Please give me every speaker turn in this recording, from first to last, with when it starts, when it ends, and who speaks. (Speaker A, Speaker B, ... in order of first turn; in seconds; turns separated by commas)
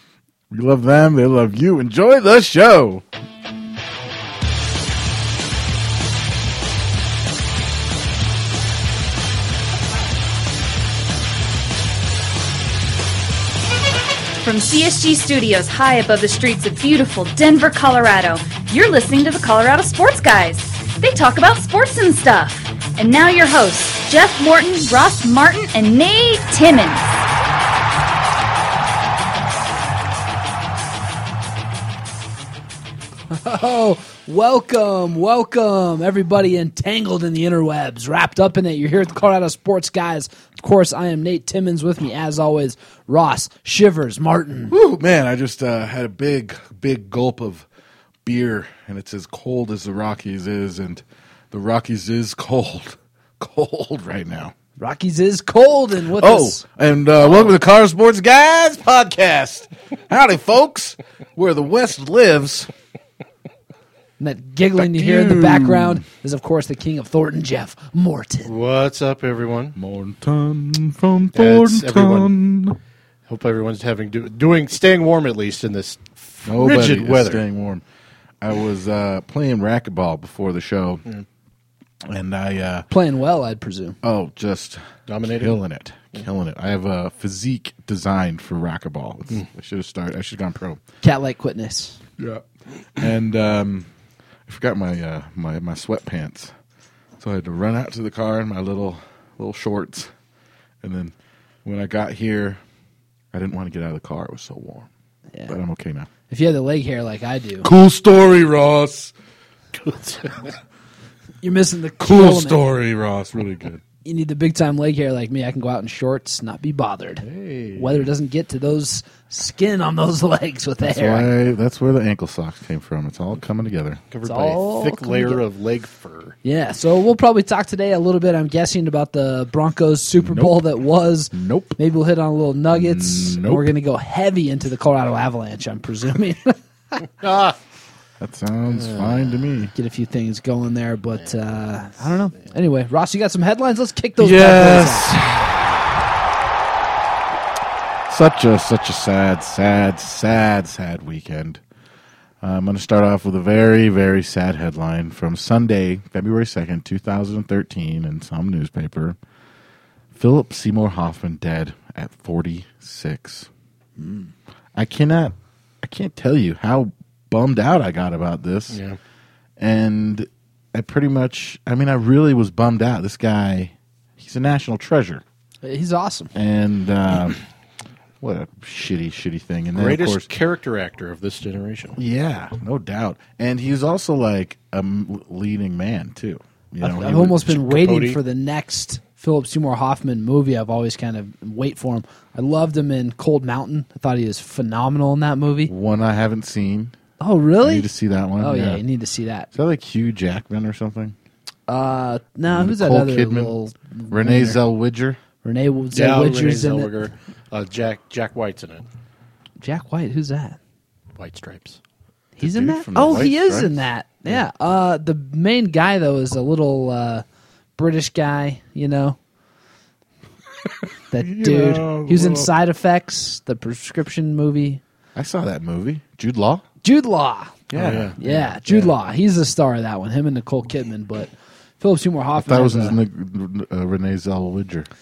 Speaker A: 0.5-3.0, Speaker B: 14.4-27.1, Speaker C: 33.3-44.7, Speaker A: 44.6-47.6, Speaker A: 48.2-54.5, Speaker C: 54.8-56.6, Speaker A: 56.1-62.7, Speaker C: 64.2-68.5, Speaker A: 64.8-66.0, Speaker D: 68.4-69.8, Speaker A: 69.7-72.8, Speaker D: 71.3-72.3, Speaker D: 73.3-77.4, Speaker A: 76.5-77.8, Speaker A: 78.4-81.0, Speaker A: 82.0-82.9, Speaker C: 82.9-84.0, Speaker A: 84.0-84.8, Speaker D: 85.1-85.6, Speaker A: 85.4-90.8, Speaker C: 91.0-92.0, Speaker A: 92.2-92.4, Speaker A: 93.0-93.9, Speaker A: 94.5-96.5, Speaker A: 97.2-100.1, Speaker A: 100.8-101.1, Speaker A: 101.6-102.6, Speaker A: 103.3-104.9, Speaker A: 105.5-106.1, Speaker C: 106.3-107.7, Speaker A: 107.6-109.1, Speaker D: 109.7-110.6, Speaker C: 111.4-112.6, Speaker A: 112.0-113.8, Speaker C: 114.0-117.2, Speaker A: 117.2-118.1, Speaker C: 117.8-121.3, Speaker A: 120.8-124.0, Speaker D: 124.1-126.3, Speaker C: 124.2-125.4, Speaker C: 126.4-136.6, Speaker A: 130.2-130.6, Speaker A: 131.3-131.8, Speaker A: 132.7-133.7, Speaker D: 137.1-137.6, Speaker A: 138.2-139.7, Speaker D: 138.7-139.4, Speaker C: 139.7-145.1, Speaker A: 144.2-145.7, Speaker A: 148.1-151.6, Speaker A: 152.4-159.2, Speaker A: 160.1-163.5, Speaker A: 164.7-168.8, Speaker D: 168.7-169.0, Speaker A: 169.6-175.2, Speaker C: 175.6-176.3, Speaker A: 176.3-177.4, Speaker A: 178.2-180.3, Speaker D: 179.7-182.0, Speaker A: 181.9-187.6, Speaker C: 186.8-195.7, Speaker D: 187.5-188.2, Speaker A: 195.7-196.9, Speaker C: 197.2-199.5, Speaker A: 197.6-198.8, Speaker A: 199.5-201.1, Speaker C: 201.7-204.6, Speaker A: 202.5-203.5, Speaker A: 204.1-205.2, Speaker C: 205.4-206.9, Speaker D: 205.9-208.9, Speaker C: 209.6-210.6, Speaker D: 211.2-211.8, Speaker C: 212.4-217.2, Speaker A: 212.4-213.8, Speaker C: 217.8-219.2, Speaker C: 221.1-224.8, Speaker A: 221.2-222.5, Speaker A: 225.1-226.6, Speaker C: 226.8-233.0, Speaker A: 227.7-228.5, Speaker D: 227.7-228.9, Speaker A: 232.4-234.9